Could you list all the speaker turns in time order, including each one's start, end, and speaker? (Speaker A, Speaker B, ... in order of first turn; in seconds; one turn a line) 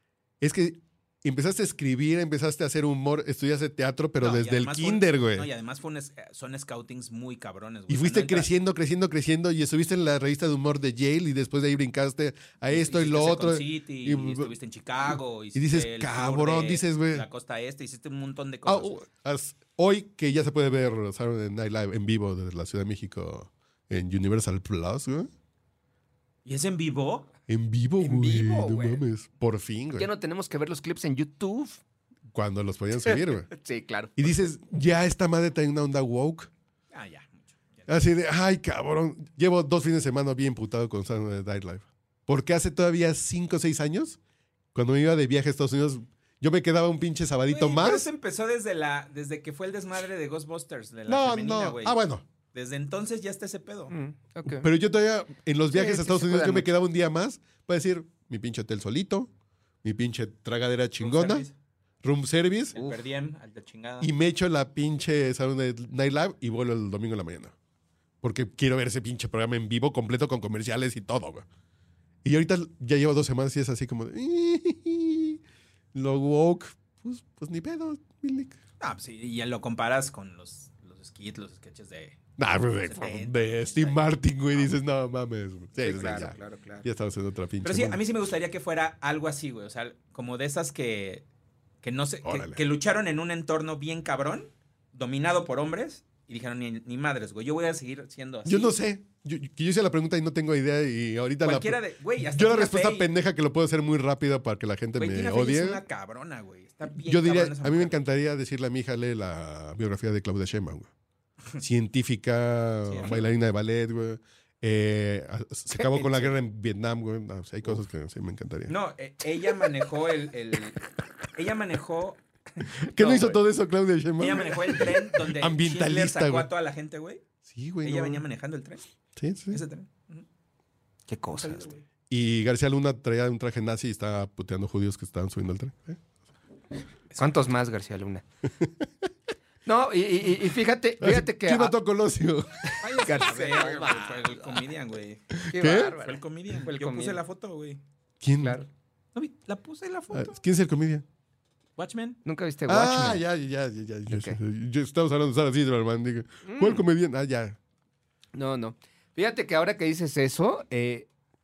Speaker A: 0.4-5.5
Speaker B: 4.2-8.5
Speaker A: 7.9-14.5
Speaker B: 12.7-18.9
Speaker A: 15.6-17.3
Speaker A: 18.7-25.3
Speaker B: 26.5-27.3
Speaker A: 27.5-30.1
Speaker C: 28.0-29.0
Speaker C: 30.0-31.8
Speaker A: 32.3-33.5
Speaker C: 33.0-34.4
Speaker A: 34.2-36.5
Speaker B: 36.9-38.0
Speaker A: 37.9-44.2
Speaker A: 44.7-48.1
Speaker B: 47.5-52.0
Speaker A: 51.1-52.2
Speaker B: 52.5-53.9
Speaker C: 53.9-54.7
Speaker A: 54.5-59.3
Speaker C: 55.7-56.7
Speaker A: 59.8-61.5
Speaker B: 61.0-61.5
Speaker A: 62.0-62.8
Speaker B: 62.7-64.1
Speaker C: 62.8-63.0
Speaker A: 64.0-67.5
Speaker A: 68.2-71.5
Speaker A: 72.2-75.4
Speaker A: 75.9-78.6
Speaker B: 78.8-82.2
Speaker A: 82.4-88.0
Speaker B: 82.8-84.7
Speaker C: 85.8-86.9
Speaker B: 87.6-91.2
Speaker B: 91.8-98.7
Speaker A: 92.2-92.6
Speaker A: 98.5-105.8
Speaker B: 101.4-103.1
Speaker B: 105.0-108.0
Speaker A: 106.9-110.9
Speaker A: 111.6-118.7
Speaker B: 112.9-113.2
Speaker B: 116.0-116.3
Speaker B: 118.7-120.8
Speaker B: 121.3-123.4
Speaker A: 122.8-126.5
Speaker B: 124.2-127.2
Speaker A: 127.5-128.2
Speaker B: 127.8-128.8
Speaker A: 129.2-129.6
Speaker B: 129.5-130.2
Speaker C: 131.1-131.7
Speaker B: 131.4-131.8
Speaker A: 132.1-136.0
Speaker C: 137.2-138.2
Speaker C: 139.7-141.8
Speaker A: 141.0-143.0
Speaker B: 142.8-145.3
Speaker C: 143.0-144.7
Speaker A: 145.4-145.9
Speaker C: 145.5-147.2
Speaker B: 146.0-147.8
Speaker A: 148.2-148.6
Speaker C: 148.4-148.7
Speaker B: 149.2-150.4
Speaker A: 150.1-151.1
Speaker B: 151.8-152.2
Speaker C: 152.2-153.2
Speaker A: 152.7-157.6
Speaker C: 154.1-154.4
Speaker C: 156.5-156.8
Speaker C: 158.3-161.1